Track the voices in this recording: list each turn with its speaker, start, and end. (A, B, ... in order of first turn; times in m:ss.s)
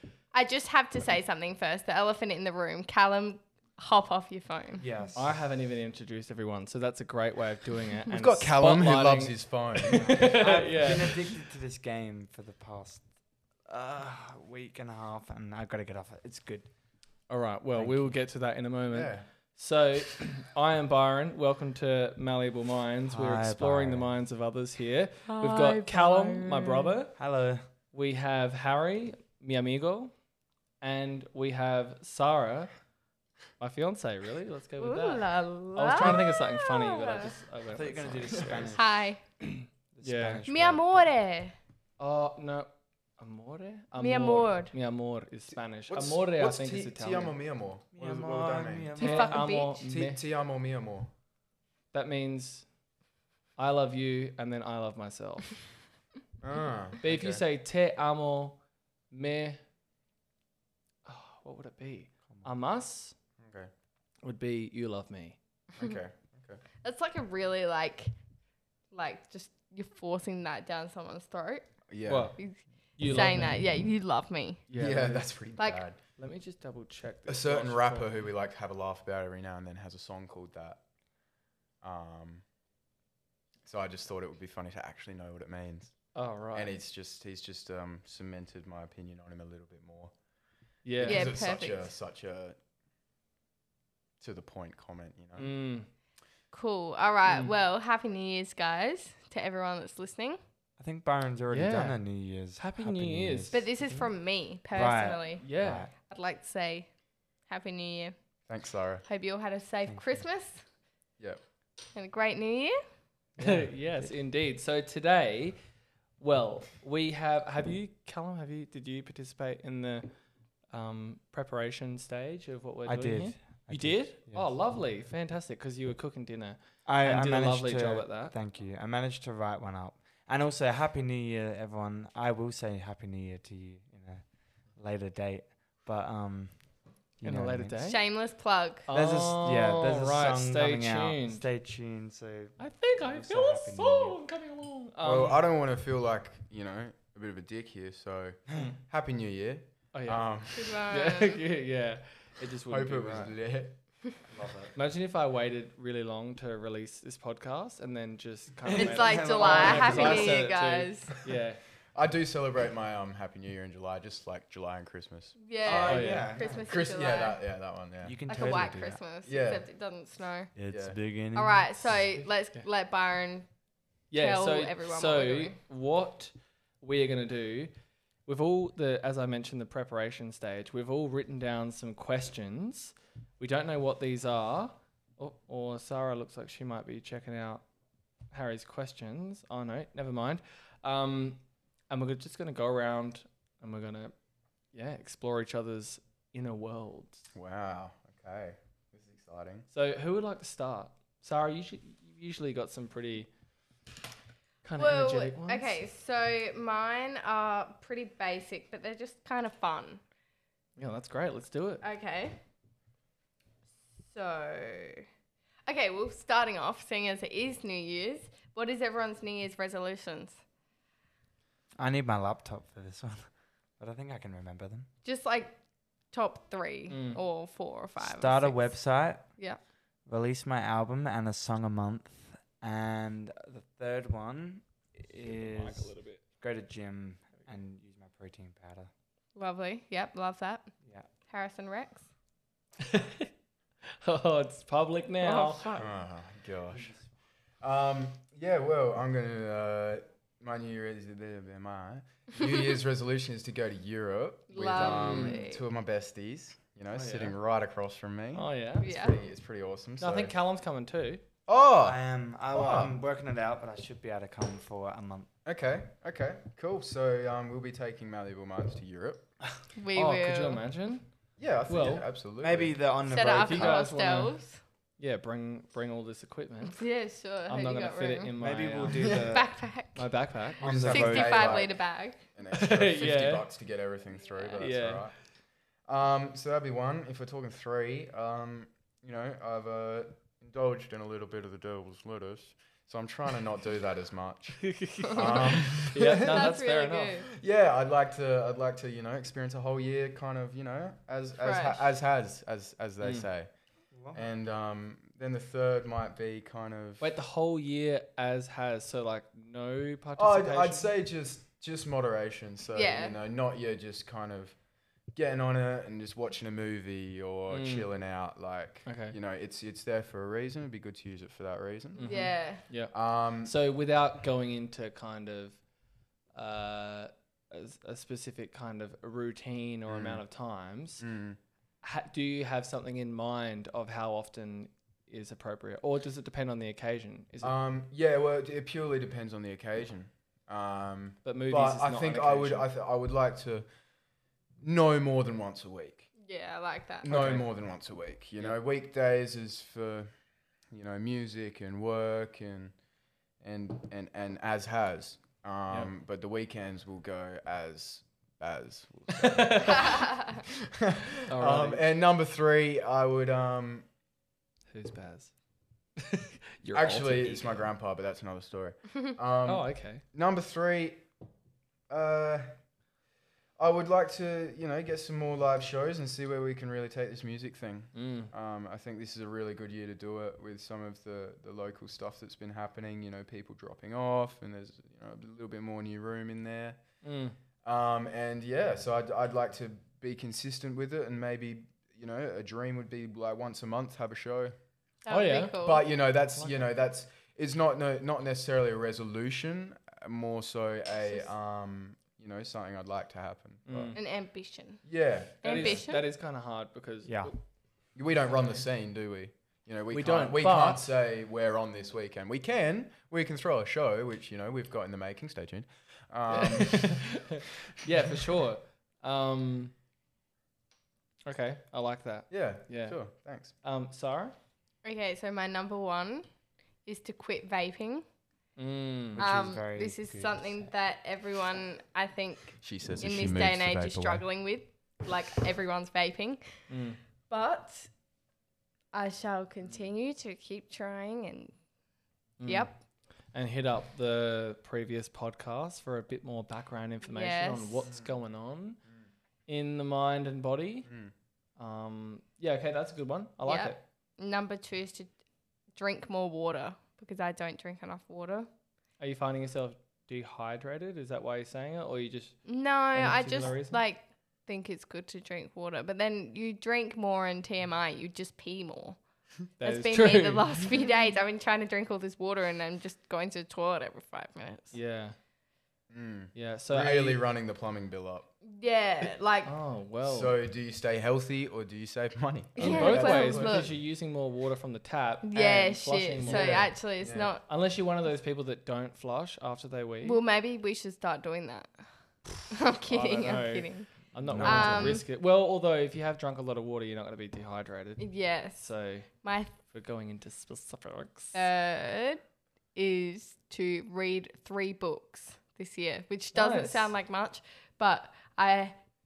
0:00.3-0:04.8 A
0:04.8-0:05.3 B
0:05.1-0:11.4 C
0:08.1-0:10.4 D
0:10.0-0:13.0 B
0:13.6-0:16.7 B
0:17.3-0:27.2 C
0:17.8-0:18.1 B
0:18.9-0:19.3 D
0:23.1-0:24.1 B
0:25.3-0:26.9 A
0:27.2-0:27.6 B
0:27.9-0:30.1 C
0:30.8-0:32.7 C
0:33.6-0:38.8 C
0:34.8-0:37.3 A
0:37.7-0:38.9 B
0:38.7-0:39.2 A
0:39.4-0:40.4 C
0:39.9-0:41.1 B
0:40.4-0:41.5 A
0:42.0-0:47.4 C
0:44.0-0:44.7 A
0:45.9-0:48.9 D
0:47.9-0:49.4 B
0:48.9-0:49.8 A
0:49.0-0:50.2 C
0:49.8-0:51.1 D
0:51.9-0:52.6 C
0:53.6-0:55.6 C
0:56.4-0:57.4 D
0:57.0-0:58.6 C
0:59.1-0:59.6 C
1:01.0-1:03.2 C
1:03.4-1:03.7 D
1:04.2-1:05.4 C
1:05.8-1:06.6 D
1:06.8-1:08.1 A
1:08.9-1:11.7 A
1:11.9-1:12.4 D
1:12.0-1:12.4 C
1:12.4-1:14.6 A
1:13.0-1:13.6 C
1:14.7-1:15.3 C
1:14.8-1:16.0 D
1:15.6-1:15.8 A
1:16.2-1:18.1 C
1:17.3-1:20.8 D
1:21.8-1:22.4 D
1:23.6-1:25.9 D
1:26.1-1:26.7 C
1:26.5-1:30.1 D
1:30.8-1:31.3 C
1:31.0-1:32.6 D
1:31.0-1:31.9 A
1:34.2-1:35.5 D
1:35.4-1:35.9 C
1:36.5-1:40.4 A
1:40.8-1:44.1 B
1:41.5-1:42.0 C
1:42.5-1:43.6 C
1:43.5-1:45.4 A
1:44.7-1:45.9 B
1:45.4-1:45.8 C
1:46.0-1:46.9 A
1:47.5-1:48.1 A
1:48.5-1:49.0 D
1:49.0-1:50.6 A
1:49.8-1:50.2 B
1:51.9-1:52.8 A
1:53.4-1:55.6 C
1:53.4-1:53.7 B
1:56.2-2:00.1 C
2:00.7-2:08.3 C
2:02.8-2:04.5 B
2:06.8-2:17.8 B
2:17.2-2:18.0 C
2:17.8-2:18.9 A
2:18.9-2:21.4 C
2:18.9-2:24.2 B
2:22.6-2:25.4 C
2:25.0-2:30.7 D
2:29.9-2:30.2 C
2:30.5-2:31.4 A
2:30.8-2:33.3 C
2:32.7-2:33.8 D
2:34.3-2:34.7 B
2:34.7-2:41.6 C
2:38.6-2:40.4 B
2:38.7-2:41.2 A
2:41.9-2:46.0 D
2:45.4-2:47.4 A
2:45.6-2:46.7 B
2:45.8-2:46.3 C
2:46.5-2:48.2 D
2:48.0-2:49.0 B
2:48.3-2:50.5 A
2:49.2-2:49.6 D
2:50.5-2:52.1 B
2:50.7-2:51.0 D
2:51.3-2:53.5 A
2:54.1-2:57.7 C
2:54.2-2:55.6 A
2:58.2-3:07.6 C
3:08.3-3:14.1 C
3:14.7-3:17.2 C
3:17.3-3:19.7 D
3:19.7-3:23.3 C
3:24.6-3:25.8 C
3:24.8-3:30.0 A
3:30.8-3:31.8 C
3:31.8-3:32.4 A
3:34.0-3:35.0 A
3:35.6-3:40.4 A
3:41.8-3:44.9 B
3:45.0-3:45.6 A
3:46.1-3:48.8 A
3:46.9-3:47.2 C
3:48.0-3:49.2 B
3:50.1-3:58.9 B
3:55.2-3:56.2 C
3:59.3-4:00.7 A
4:01.3-4:02.1 A
4:02.8-4:03.3 C
4:04.0-4:05.7 C
4:05.2-4:05.9 A
4:05.7-4:07.0 D
4:06.7-4:07.0 B
4:07.6-4:20.3 D
4:14.5-4:15.6 A
4:14.7-4:15.4 C
4:16.9-4:17.4 C
4:18.3-4:19.0 C
4:18.8-4:19.2 A
4:20.0-4:21.2 C
4:21.5-4:22.0 D
4:21.8-4:25.3 B
4:22.5-4:23.0 D
4:25.4-4:29.3 D
4:29.7-4:30.6 A
4:29.9-4:31.1 C
4:31.4-4:32.8 D
4:31.7-4:32.0 C
4:32.4-4:33.9 B
4:33.1-4:34.6 A
4:33.3-4:34.4 C
4:35.0-4:36.8 C
4:36.7-4:38.3 A
4:37.5-4:39.2 C
4:38.4-4:39.5 B
4:39.0-4:40.1 A
4:39.9-4:40.7 C
4:40.6-4:41.6 B
4:40.6-4:45.2 D
4:40.7-4:42.2 A
4:42.5-4:43.5 C
4:44.6-4:45.1 C
4:45.8-4:56.5 D
4:54.6-4:57.1 C
4:55.1-4:55.5 A
4:56.1-4:57.3 A
4:57.3-5:03.5 D
5:01.4-5:01.9 A
5:03.0-5:03.3 C
5:03.9-5:04.3 B
5:04.1-5:07.1 D
5:07.0-5:10.9 C
5:10.2-5:14.6 D
5:12.7-5:13.2 A
5:15.1-5:22.1 D
5:17.5-5:17.9 C
5:18.8-5:19.2 C
5:22.0-5:25.6 C
5:22.0-5:22.6 A
5:22.9-5:23.5 D
5:26.3-5:31.0 C
5:29.9-5:30.2 D
5:31.0-5:31.4 D
5:31.8-5:37.6 C
5:37.4-5:43.7 D
5:41.2-5:42.7 C
5:44.6-5:46.1 D
5:46.2-5:47.3 A
5:47.0-5:50.1 D
5:47.1-5:47.5 C
5:50.7-5:52.7 D
5:53.4-6:03.8 D
5:59.1-6:00.0 C
6:01.3-6:01.8 C
6:04.7-6:05.3 C
6:06.0-6:07.6 C
6:06.7-6:11.1 D
6:09.4-6:10.0 C
6:11.9-6:12.6 D
6:13.6-6:26.8 D
6:17.9-6:18.3 C
6:27.0-6:27.4 C
6:27.6-6:34.5 D
6:35.0-6:35.8 A
6:35.1-6:35.6 C
6:35.6-6:44.0 D
6:36.3-6:36.7 C
6:43.6-6:44.0 C
6:43.9-6:44.9 A
6:44.8-6:45.8 D
6:45.4-6:46.0 A
6:45.4-6:47.4 C
6:47.0-6:47.3 B
6:47.9-6:57.2 D
6:49.9-6:50.9 C
6:56.3-6:59.7 C
7:01.2-7:03.0 C
7:02.3-7:03.5 D
7:03.6-7:04.3 C
7:04.8-7:06.3 A
7:06.8-7:08.0 A
7:08.6-7:09.2 C
7:09.2-7:10.7 B
7:09.2-7:16.6 A
7:12.6-7:14.2 D
7:16.7-7:17.0 C
7:17.3-7:17.9 A
7:18.9-7:21.5 A
7:22.4-7:22.7 C
7:22.4-7:22.7 A
7:23.3-7:28.8 C
7:27.1-7:27.9 A
7:29.5-7:30.9 C
7:30.9-7:31.1 D
7:31.6-7:33.8 C
7:33.4-7:35.1 A
7:35.7-7:38.5 A
7:39.0-7:43.8 C
7:42.4-7:49.0 A
7:49.6-7:54.7 A
7:49.6-7:50.7 C
7:54.7-7:55.2 C
7:55.9-7:58.3 D
7:56.3-7:57.2 C
7:58.4-7:59.5 A
7:59.4-8:00.4 C
8:00.0-8:03.7 D
8:02.6-8:03.7 A
8:02.6-8:06.8 C
8:05.2-8:07.4 A
8:06.2-8:07.3 D
8:07.5-8:10.2 C
8:10.0-8:11.9 A
8:12.5-8:15.0 A
8:12.8-8:18.0 C
8:14.2-8:14.9 B
8:14.3-8:14.7 D
8:18.0-8:18.7 A
8:18.6-8:19.1 C
8:19.2-8:19.6 A
8:19.6-8:21.4 C
8:21.3-8:22.2 A
8:22.7-8:28.8 A
8:26.3-8:26.9 C